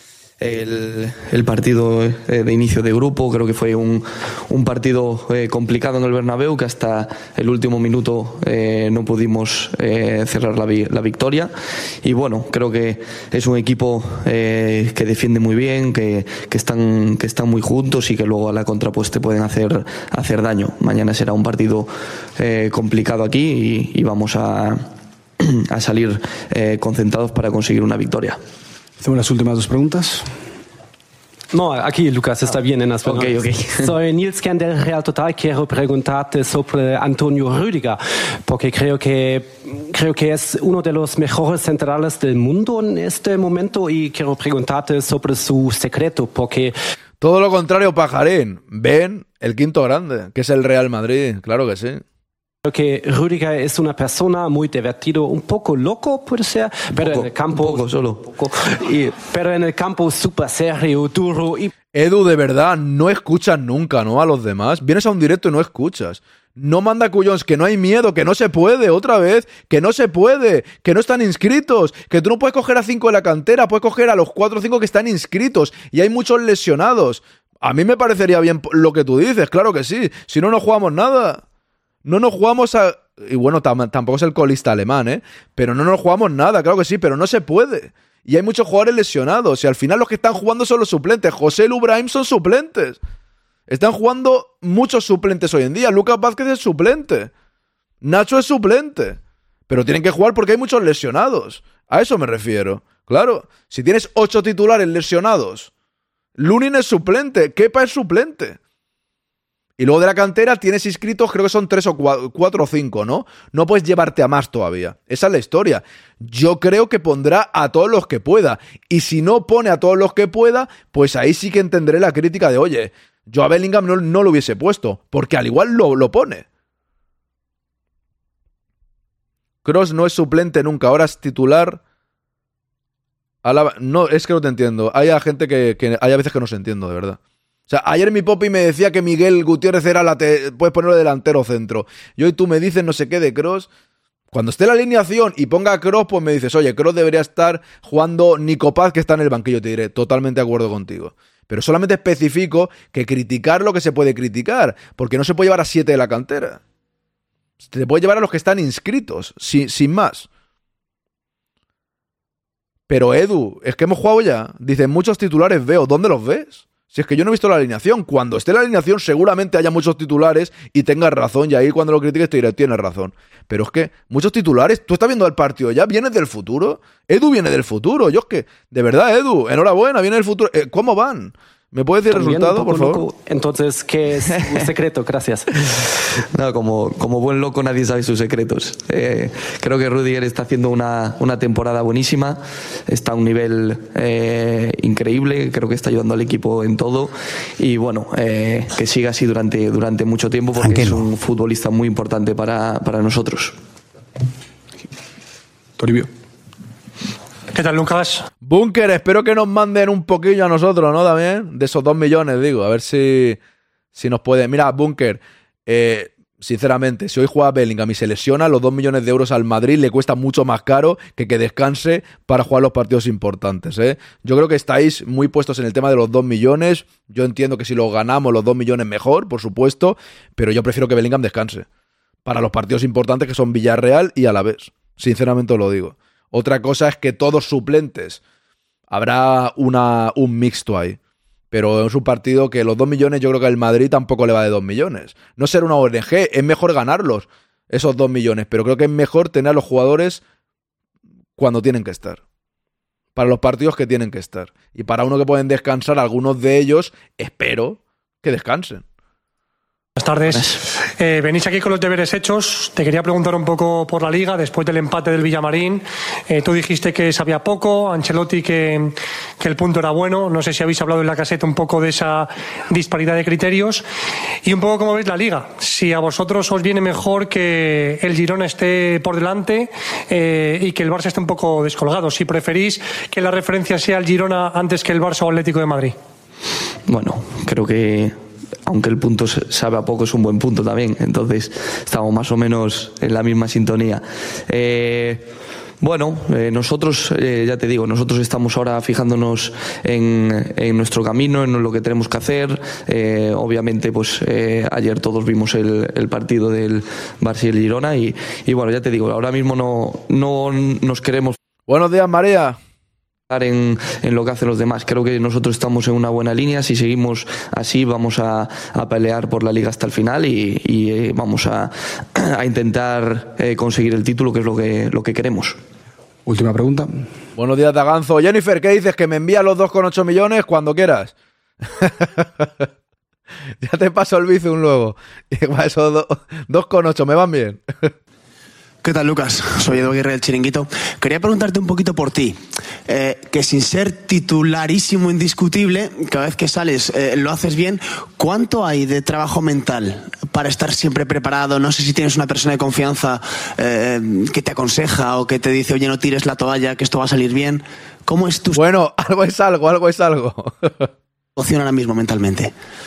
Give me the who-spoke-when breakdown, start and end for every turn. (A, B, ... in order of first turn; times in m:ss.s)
0:00.4-0:11.5 A
0:12.0-0:24.9 A
0:25.4-0:28.4 A
0:29.0-0:30.3 B
0:31.5-0:46.7 C
0:33.0-0:33.8 A
0:47.2-0:52.0 D
0:52.6-1:01.7 C
0:56.9-0:58.4 A
1:01.9-1:21.4 D
1:22.0-1:33.0 D
1:33.7-1:37.3 D
1:38.0-1:45.7 D
1:46.4-1:48.6 D
1:49.8-2:06.4 D
2:09.6-2:11.8 D
2:13.4-2:23.7 D
2:24.3-2:36.6 D
2:37.6-2:40.3 D
2:42.9-3:03.0 D
3:02.1-3:05.5 C
3:06.3-3:23.6 A
3:25.8-3:26.1 B
3:27.5-3:28.2 E
3:28.4-3:33.4 D
3:33.9-3:51.7 D
3:52.3-3:58.2 D
3:58.9-4:01.0 D
4:01.5-4:10.2 D
4:11.4-4:12.2 D
4:13.2-4:18.8 D
4:20.0-4:33.8 E
4:34.4-4:46.0 E
4:46.9-4:55.3 A
4:55.8-5:11.4 A
5:11.7-5:12.6 D
5:13.3-5:25.6 A
5:26.3-5:27.1 B
5:27.4-5:32.6 D
5:33.6-5:37.6 D
5:38.8-5:58.6 F
5:58.5-6:00.9 D
6:01.4-6:02.5 F